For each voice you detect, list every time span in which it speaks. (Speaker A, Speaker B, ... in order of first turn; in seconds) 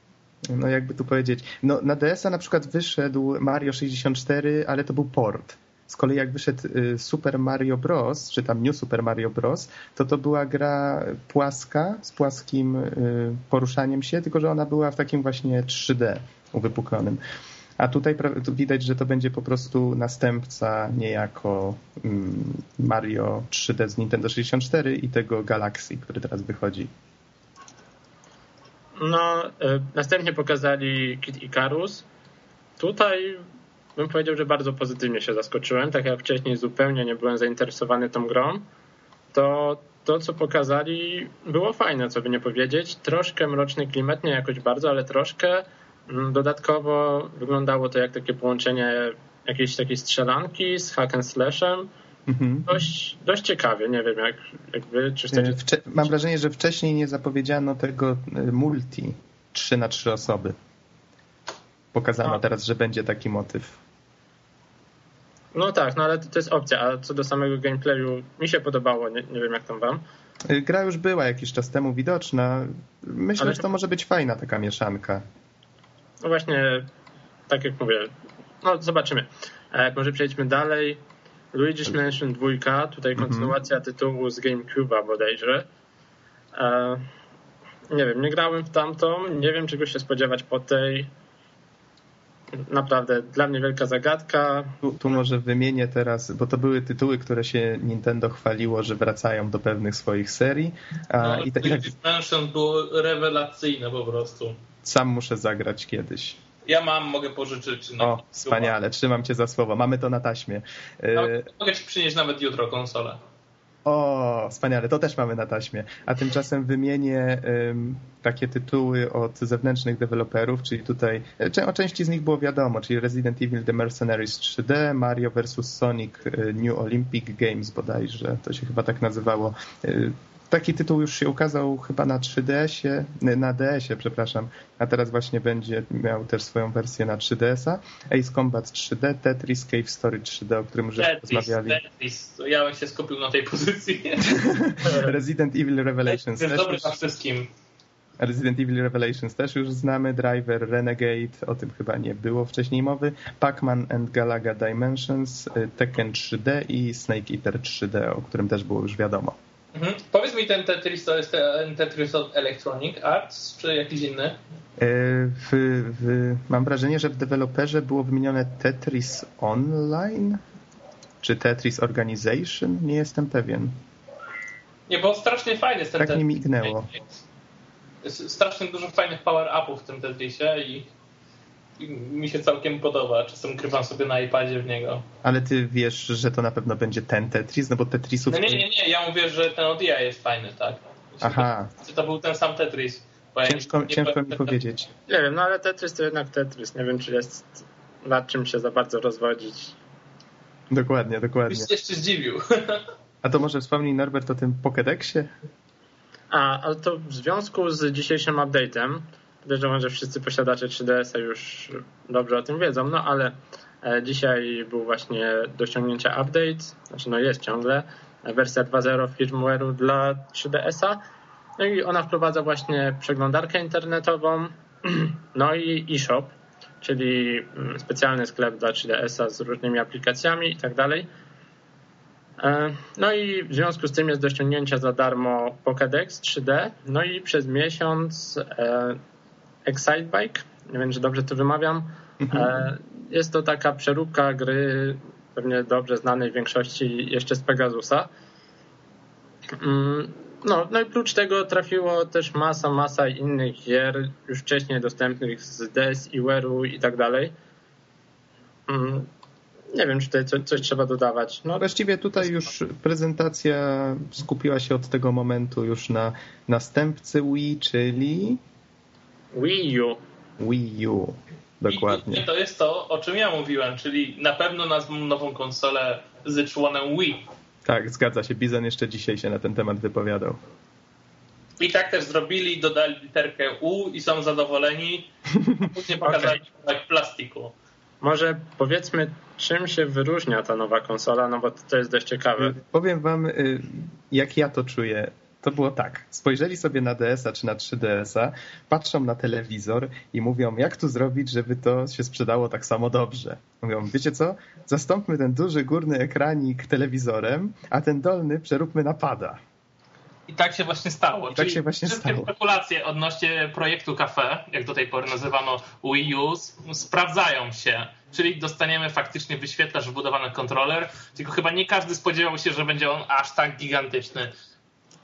Speaker A: 0.4-17.2, 17.8-26.9, 52.3-52.7, 55.3-60.5, 61.9-63.8, 70.5-75.2, 83.2-83.5, 94.8-101.9, 104.8-106.4, 108.0-111.5, 113.8-141.8, 144.3-147.0, 148.2-159.3, 164.8-170.4, 171.2-173.8, 176.0-176.9, 185.2-188.6, 191.2-191.7, 193.4-194.9, 200.7-201.7, 203.2-205.3, 242.2-242.5, 261.6-268.4, 270.4-272.2, 277.6-280.4, 285.3-285.7, 292.4-309.4, 311.3-312.3
Speaker B: 29.0-32.0, 32.8-33.4, 34.0-38.7, 39.3-51.9, 52.7-56.1, 65.5-70.0, 73.4-73.7, 76.2-76.9, 77.5-81.0, 81.5-85.7, 86.5-87.0, 87.9-91.1, 92.5-94.8, 144.8-145.1, 195.1-199.8, 206.3-221.0, 221.6-231.1, 232.4-239.0, 239.7-248.1, 249.6-257.3, 258.7-259.1, 259.7-261.7, 269.3-270.0, 286.0-286.4, 288.0-292.6
Speaker C: 101.2-104.6, 106.7-108.7, 111.1-113.2, 140.9-144.4, 146.1-147.5, 159.7-164.4, 174.9-177.1, 178.0-180.9, 181.8-185.0, 188.3-194.5, 201.5-202.8, 271.7-277.2, 281.6-287.5, 310.3-324.3